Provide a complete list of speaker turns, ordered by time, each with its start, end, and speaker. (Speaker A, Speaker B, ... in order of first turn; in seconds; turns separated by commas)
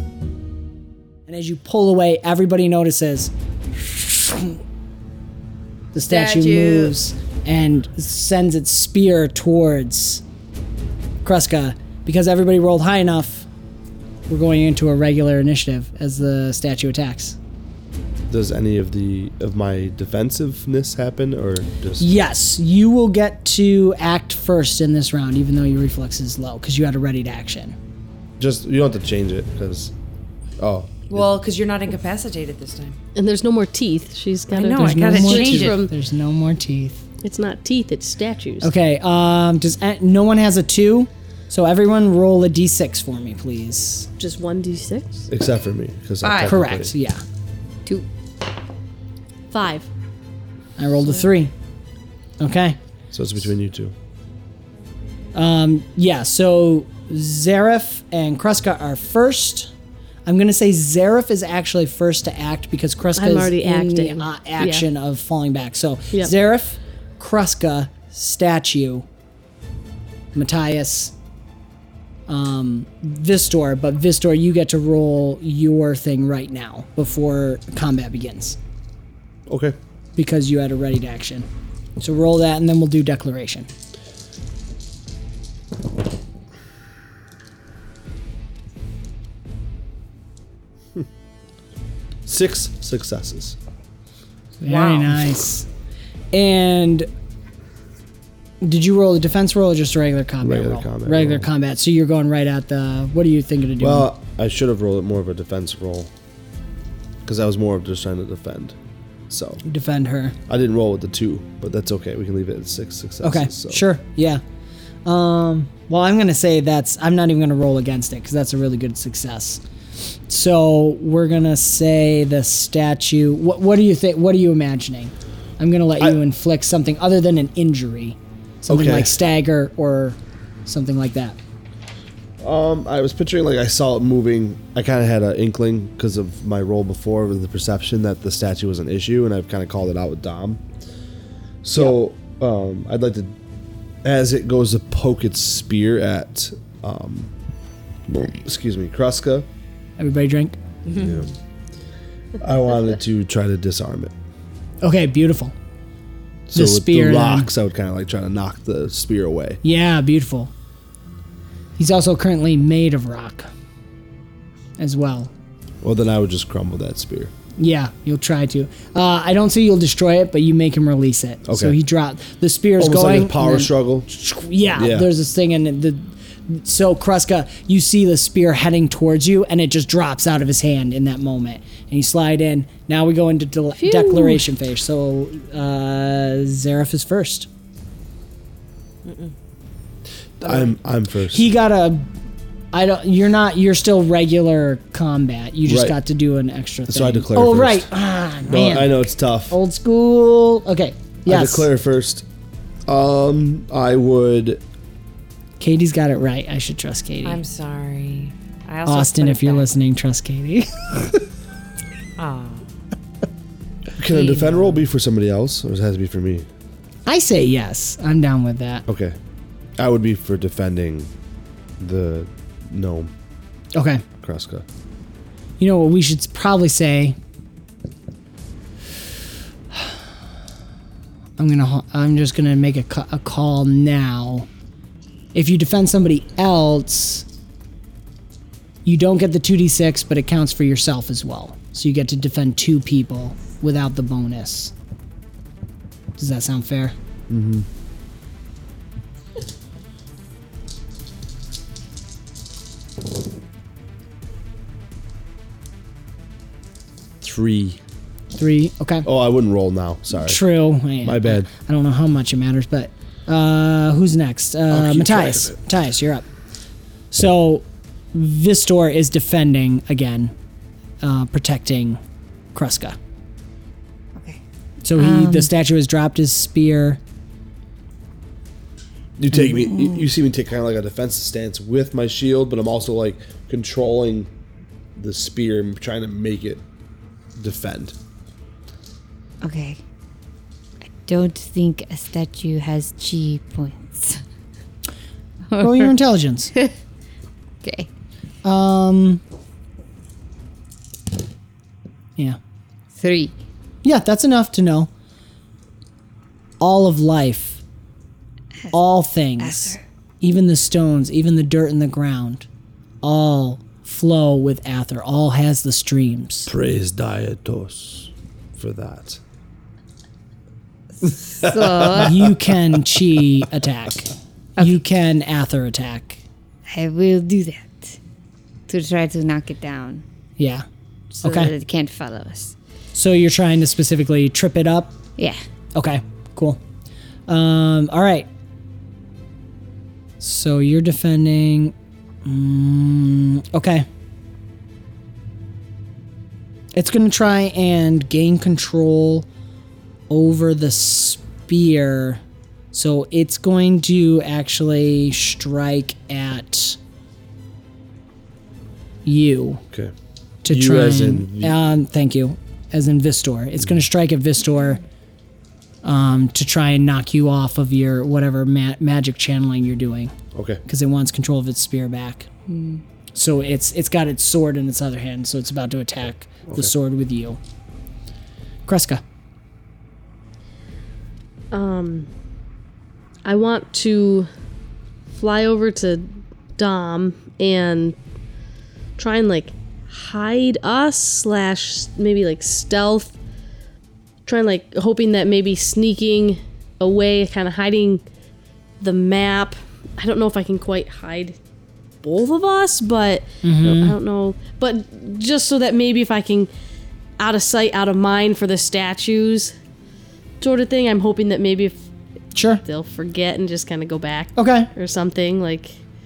Speaker A: 1.3-4.6, Speaker A: 5.9-10.2, Speaker B: 6.1-7.0, Speaker A: 11.2-13.5, Speaker A: 14.3-17.4, Speaker C: 18.3-22.1, Speaker A: 22.0-27.8, Speaker C: 28.4-29.9, Speaker C: 30.6-31.4, Speaker B: 31.1-33.0, Speaker D: 33.1-35.9, Speaker B: 34.5-35.9, Speaker A: 34.8-37.0, Speaker D: 37.2-38.7, Speaker A: 38.6-44.1, Speaker D: 44.2-45.3, Speaker C: 45.3-46.9, Speaker B: 46.2-46.5, Speaker A: 46.5-47.2, Speaker D: 49.5-49.9, Speaker A: 50.8-51.5, Speaker A: 52.4-52.8, Speaker C: 53.1-53.9, Speaker A: 55.3-59.7, Speaker A: 60.2-69.1, Speaker D: 63.2-64.9, Speaker A: 70.3-71.1, Speaker A: 72.3-78.6, Speaker C: 79.5-79.8, Speaker A: 80.2-81.5, Speaker A: 82.0-83.7, Speaker C: 92.3-93.6, Speaker A: 94.6-95.7, Speaker B: 94.6-95.3, Speaker A: 96.3-97.1, Speaker A: 98.6-104.1, Speaker C: 100.4-101.5, Speaker C: 103.8-106.1, Speaker C: 107.2-108.8, Speaker C: 109.3-109.6, Speaker A: 109.7-110.3, Speaker C: 110.5-113.8, Speaker A: 113.2-114.4, Speaker A: 115.0-119.6, Speaker A: 120.3-131.4, Speaker C: 128.7-129.1, Speaker C: 132.4-140.6, Speaker C: 141.6-143.3, Speaker C: 144.0-147.3, Speaker C: 148.1-149.5, Speaker A: 150.0-150.6, Speaker B: 150.9-151.3, Speaker C: 150.9-151.3, Speaker C: 152.4-154.1, Speaker A: 154.8-155.6, Speaker C: 156.5-159.6, Speaker A: 156.5-157.5, Speaker A: 159.6-160.5, Speaker A: 161.8-163.5, Speaker A: 164.8-165.3, Speaker C: 165.8-167.3, Speaker A: 167.6-187.5, Speaker C: 171.5-171.8, Speaker C: 172.8-174.1, Speaker C: 174.7-175.1, Speaker D: 183.8-184.4, Speaker B: 189.1-189.3, Speaker C: 190.4-191.5, Speaker B: 190.4-190.8, Speaker A: 191.3-192.1, Speaker A: 192.7-201.7, Speaker C: 195.7-196.0, Speaker C: 196.9-197.9, Speaker C: 198.4-199.6, Speaker C: 201.3-202.3, Speaker C: 202.9-204.6, Speaker A: 205.6-207.4, Speaker B: 207.2-209.7, Speaker A: 208.9-211.2, Speaker B: 212.2-212.7, Speaker C: 214.0-216.5, Speaker B: 214.1-214.8, Speaker A: 217.1-218.8, Speaker C: 218.9-219.2, Speaker C: 219.8-221.1, Speaker C: 221.8-223.1, Speaker A: 223.8-224.0, Speaker C: 224.2-224.7, Speaker A: 225.6-227.2, Speaker A: 229.7-230.0, Speaker A: 231.4-234.5, Speaker A: 235.3-237.3, Speaker A: 238.8-244.7, Speaker A: 246.2-246.9, Speaker C: 247.3-247.7, Speaker C: 257.2-257.8, Speaker A: 258.4-259.1, Speaker C: 259.1-260.4, Speaker A: 260.2-266.3, Speaker C: 261.0-261.5, Speaker C: 264.7-265.6, Speaker A: 267.1-270.3, Speaker A: 271.0-272.0, Speaker A: 272.5-273.0, Speaker E: 274.2-274.4, Speaker A: 274.9-277.0, Speaker E: 274.9-275.5, Speaker C: 279.2-284.3, Speaker E: 279.6-280.0, Speaker C: 285.0-286.6, Speaker C: 287.4-287.9, Speaker E: 289.4-289.8, Speaker E: 291.0-294.2, Speaker E: 295.5-295.9, Speaker A: 295.6-296.5, Speaker E: 297.6-297.9, Speaker A: 298.4-299.2, Speaker E: 302.9-303.4, Speaker A: 303.8-304.9, Speaker A: 306.6-307.6, Speaker A: 308.7-312.5, Speaker E: 309.4-309.8, Speaker A: 313.0-316.5, Speaker C: 316.5-319.2, Speaker E: 321.0-322.2, Speaker C: 321.4-322.0, Speaker A: 322.0-326.2, Speaker E: 326.7-328.0, Speaker E: 328.7-330.0, Speaker A: 330.4-330.6, Speaker E: 331.1-332.6, Speaker A: 331.2-331.5, Speaker A: 332.9-335.0, Speaker A: 335.8-336.6, Speaker A: 337.3-338.3, Speaker A: 340.2-341.7, Speaker A: 342.2-343.9, Speaker A: 346.7-349.3, Speaker A: 350.1-352.2, Speaker A: 352.7-356.8, Speaker A: 359.1-359.6, Speaker A: 360.4-364.8, Speaker C: 360.5-361.6, Speaker A: 365.8-370.1, Speaker C: 370.3-370.6, Speaker A: 370.6-372.3, Speaker E: 372.5-372.8, Speaker A: 373.1-377.4, Speaker C: 376.5-376.7, Speaker A: 378.7-379.0, Speaker D: 381.5-382.1, Speaker D: 383.2-384.3, Speaker D: 385.1-388.0, Speaker D: 389.0-393.1, Speaker D: 394.3-398.0, Speaker D: 398.8-401.4, Speaker D: 402.0-406.5, Speaker A: 403.4-404.0, Speaker D: 407.2-409.5, Speaker D: 410.4-411.8, Speaker A: 412.3-412.6, Speaker D: 412.6-415.8, Speaker A: 414.4-414.7